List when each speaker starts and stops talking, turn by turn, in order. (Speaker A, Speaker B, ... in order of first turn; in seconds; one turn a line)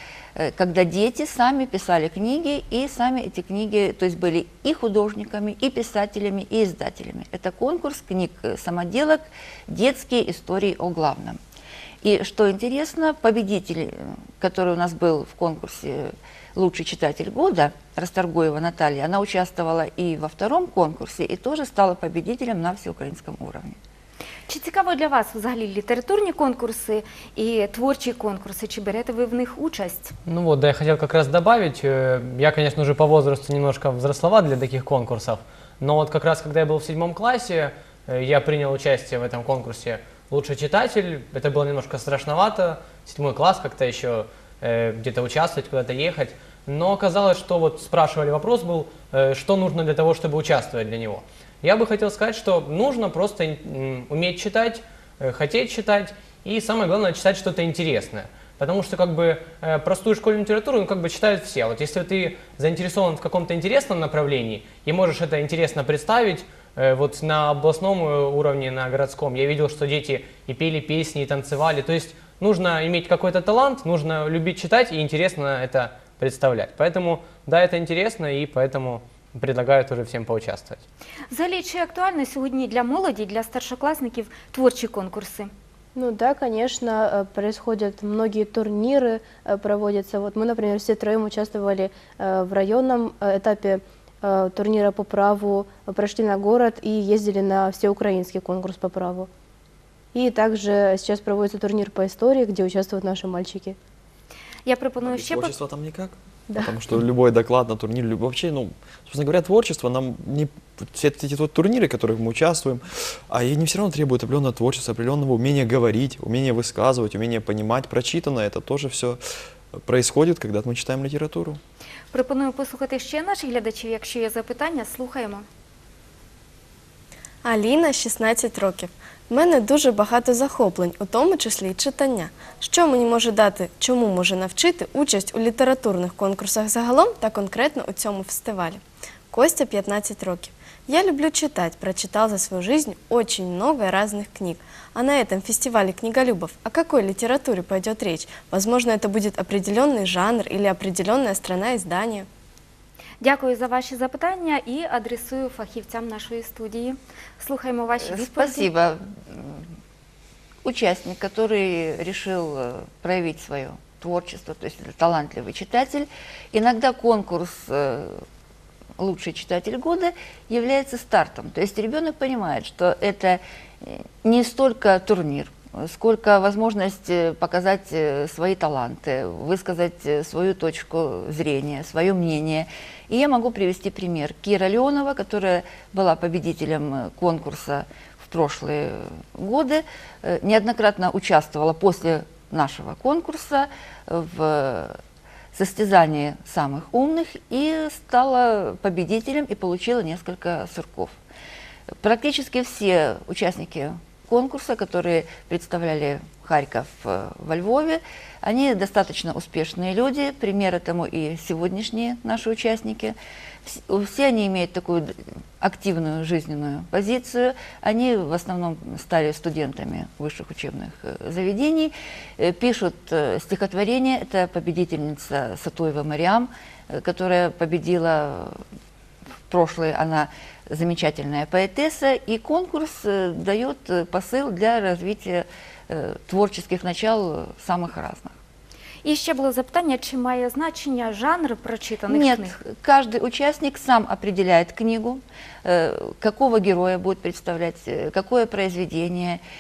Speaker A: 0.4-11.4
Speaker A: 12.0-23.8
Speaker B: 24.5-30.1
Speaker C: 30.3-80.8
Speaker B: 81.3-85.5
Speaker D: 86.0-99.3
Speaker D: 100.1-103.8
Speaker B: 104.7-105.5
Speaker E: 105.0-119.2
Speaker D: 106.5-106.8
Speaker E: 119.8-121.6
Speaker B: 122.1-125.5
Speaker F: 127.4-152.3
Speaker B: 153.2-158.7
Speaker A: 158.0-159.7
Speaker A: 160.6-168.2
Speaker A: 169.0-195.0
Speaker A: 195.5-201.2
Speaker A: 202.0-228.6
Speaker A: 229.5-238.3
Speaker B: 239.0-242.6
Speaker A: 242.1-249.4